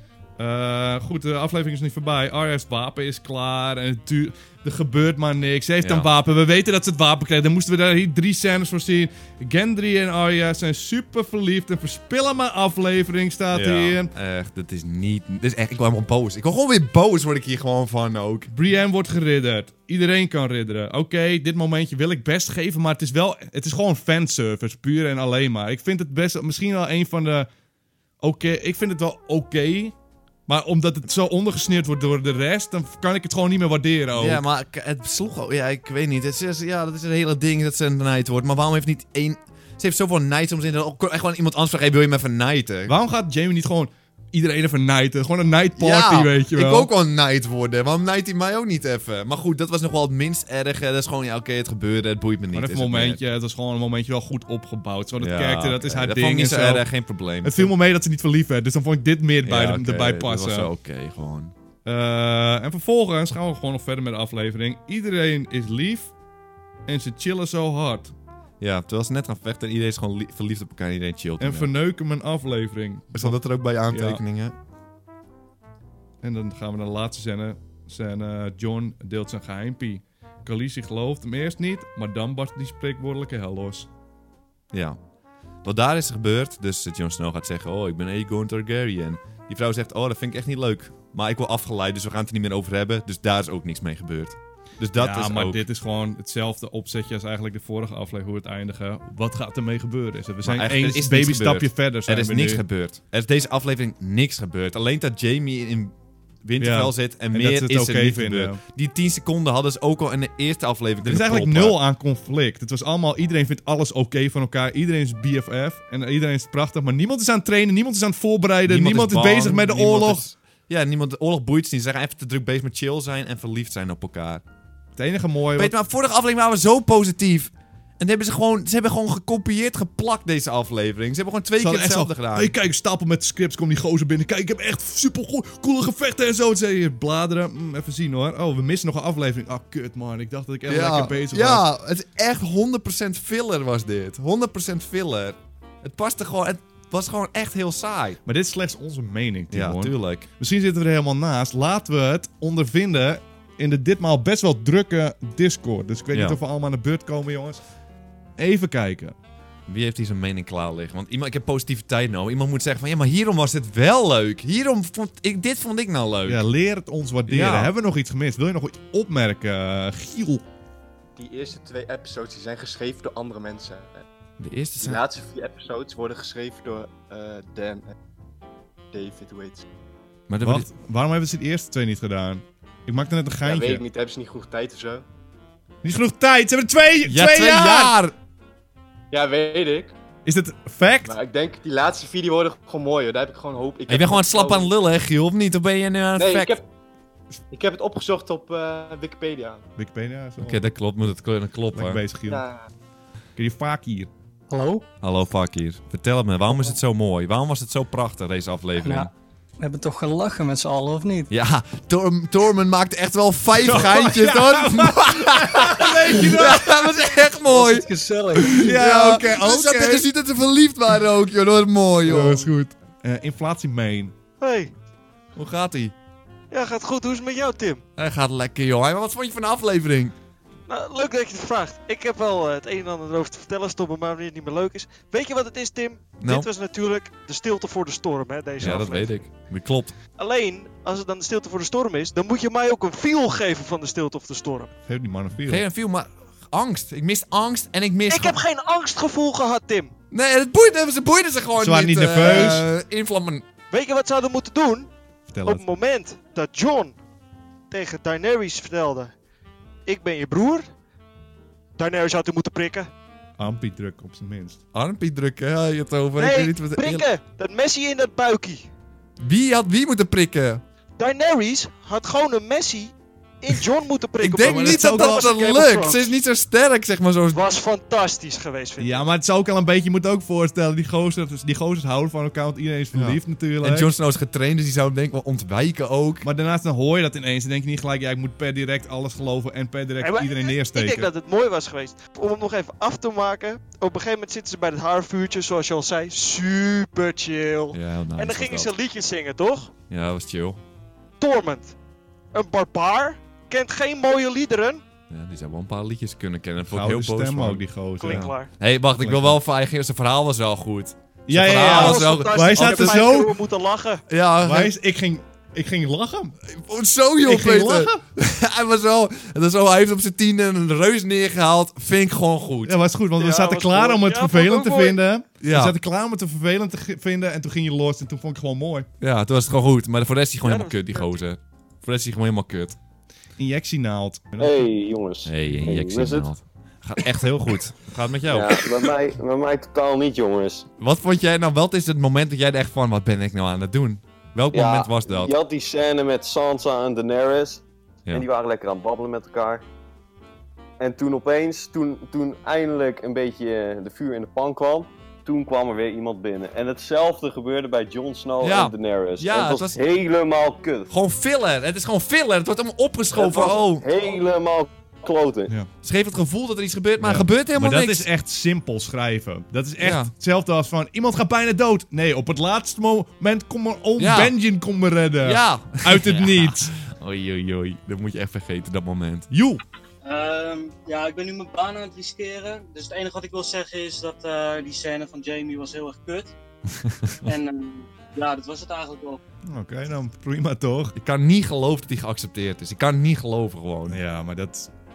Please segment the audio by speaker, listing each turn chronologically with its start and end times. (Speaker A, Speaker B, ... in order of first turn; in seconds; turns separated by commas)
Speaker A: 0.4-14.1, Speaker B: 5.8-6.1, Speaker B: 13.5-18.5, Speaker A: 18.5-27.5, Speaker A: 28.2-29.9, Speaker A: 30.5-34.4, Speaker B: 34.1-42.9, Speaker A: 42.9-46.9, Speaker B: 45.8-53.2, Speaker A: 52.5-56.9, Speaker B: 55.2-57.7, Speaker A: 57.4-60.7, Speaker B: 59.4-61.5, Speaker A: 61.8-66.1, Speaker A: 66.9-68.1, Speaker B: 68.6-71.7, Speaker A: 71.4-74.2, Speaker B: 73.1-74.5, Speaker A: 76.2-83.9, Speaker B: 84.7-85.0, Speaker B: 85.6-95.6, Speaker A: 94.9-102.6, Speaker B: 100.4-105.9, Speaker B: 106.4-111.8, Speaker A: 106.6-108.6, Speaker A: 111.0-120.2, Speaker B: 118.7-124.4, Speaker A: 125.0-125.7, Speaker B: 125.6-132.5, Speaker A: 131.6-141.7, Speaker B: 140.7-148.2, Speaker A: 148.2-157.6, Speaker B: 149.5-150.3, Speaker B: 156.1-156.4, Speaker A: 158.4-159.1, Speaker B: 159.7-166.4, Speaker A: 166.2-170.4, Speaker B: 167.3-167.7, Speaker C: 171.2-174.0, Speaker B: 174.4-175.0, Speaker C: 174.8-177.9, Speaker C: 178.9-179.6, Speaker B: 180.3-180.7, Speaker A: 180.4-183.8, Speaker C: 183.4-185.0, Speaker A: 185.8-187.9, Speaker B: 187.0-188.1, Speaker C: 189.1-189.9, Speaker A: 190.2-191.1, Speaker C: 191.1-194.7, Speaker B: 193.9-196.6, Speaker C: 196.2-196.6, Speaker C: 197.5-199.6, Speaker A: 199.8-200.6, Speaker B: 200.4-202.0, Speaker A: 201.7-202.4, Speaker C: 202.3-202.6, Speaker A: 203.4-204.1, Speaker D: 204.5-204.8, Speaker B: 205.0-209.1, Speaker D: 208.8-211.3, Speaker B: 211.3-222.7, Speaker A: 213.6-216.8, Speaker D: 217.5-218.7, Speaker A: 218.5-220.1, Speaker A: 222.1-224.1, Speaker E: 224.4-224.7, Speaker B: 225.3-225.9, Speaker E: 226.5-227.8, Speaker B: 228.0-230.1, Speaker E: 230.7-239.2, Speaker B: 236.2-236.5, Speaker B: 238.6-239.9, Speaker E: 240.2-244.7, Speaker A: 244.8-245.6, Speaker B: 245.5-248.4, Speaker E: 248.1-249.9, Speaker B: 250.1-253.4, Speaker A: 251.6-252.7, Speaker E: 253.7-254.9, Speaker A: 255.3-255.7, Speaker E: 255.4-256.9, Speaker E: 257.7-259.1, Speaker E: 259.9-260.7, Speaker E: 261.8-262.9, Speaker A: 263.4-264.6, Speaker B: 264.7-267.1, Speaker E: 266.2-268.7, Speaker B: 269.2-270.6, Speaker E: 271.0-276.1, Speaker B: 274.2-277.4, Speaker A: 274.4-275.4, Speaker E: 277.3-279.0, Speaker A: 278.8-283.9, Speaker B: 282.9-286.2, Speaker A: 286.2-291.1, Speaker E: 290.0-299.7, Speaker B: 297.7-298.7, Speaker B: 299.9-300.6, Speaker E: 301.2-301.8, Speaker E: 302.3-304.8, Speaker B: 305.1-313.0, Speaker A: 306.7-308.3, Speaker E: 308.0-308.5, Speaker A: 309.0-309.4, Speaker A: 311.3-313.3, Speaker E: 311.5-314.0, Speaker B: 314.1-314.7, Speaker A: 314.4-316.4, Speaker B: 316.5-322.8, Speaker A: 317.2-318.0, Speaker A: 322.6-328.9, Speaker E: 323.2-325.0, Speaker B: 325.4-325.7, Speaker B: 329.0-332.8, Speaker E: 330.4-331.1, Speaker A: 333.4-334.7, Speaker F: 334.4-336.3, Speaker B: 335.2-338.6, Speaker F: 338.3-340.7, Speaker B: 340.8-345.3, Speaker F: 344.5-349.6, Speaker F: 350.8-360.9, Speaker B: 358.4-359.8, Speaker B: 360.9-363.9, Speaker F: 363.1-365.5, Speaker B: 365.8-368.1, Speaker A: 367.0-376.7, Speaker B: 369.8-370.1, Speaker B: 374.0-374.3, Speaker B: 375.2-379.3, Speaker A: 379.3-379.6, Speaker G: 380.0-386.3, Speaker B: 386.8-387.2, Speaker G: 387.2-389.2, Speaker A: 389.4-390.9, Speaker B: 390.9-394.0, Speaker A: 393.9-394.7